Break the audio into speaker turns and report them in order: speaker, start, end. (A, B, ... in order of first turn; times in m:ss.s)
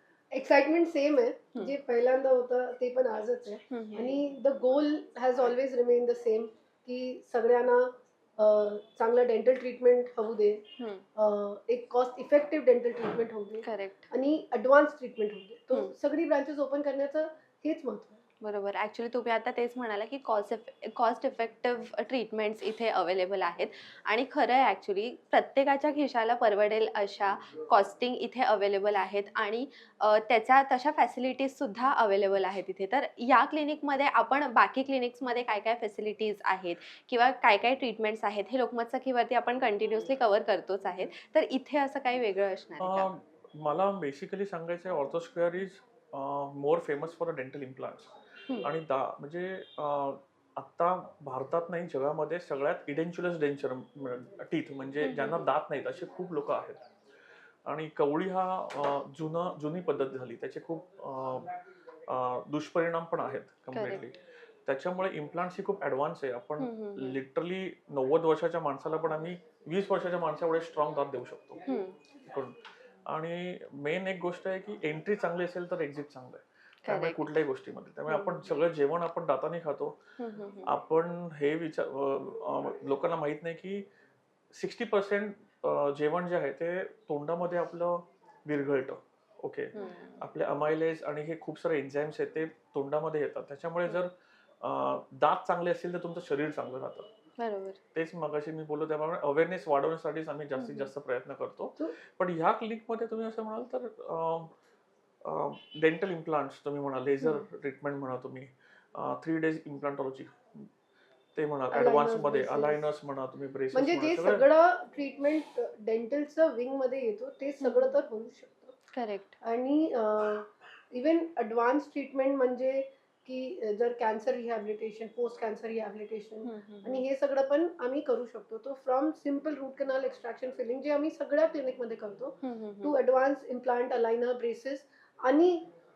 0:00.3-0:10.6 A
0:03.7-0:04.2 B
0:10.8-0:11.0 B
0:11.2-0:18.2 A
0:13.6-0:14.1 B
0:18.4-0:43.1 B
0:42.8-0:48.1 C
0:48.6-0:56.8 C
0:55.0-0:55.5 B
0:57.6-1:01.5 C
1:02.1-1:11.6 C
1:03.7-1:04.0 B
1:06.6-1:07.2 B
1:11.6-1:12.0 B
1:12.2-1:12.6 C
1:13.1-1:19.9 C
1:16.8-1:17.3 B
1:18.1-1:18.4 B
1:20.2-1:20.7 B
1:20.6-1:23.8 C
1:24.5-1:37.1 C
1:29.7-1:30.2 B
1:37.4-1:37.8 B
1:37.9-1:44.5 C
1:40.6-1:40.9 B
1:45.2-1:50.7 C
1:51.4-1:54.4 C
1:51.7-1:52.8 A
1:53.7-1:58.7 A
1:57.6-1:57.9 B
1:58.9-1:59.3 B
1:59.4-2:15.7 A
2:06.4-2:07.0 B
2:12.4-2:13.0 B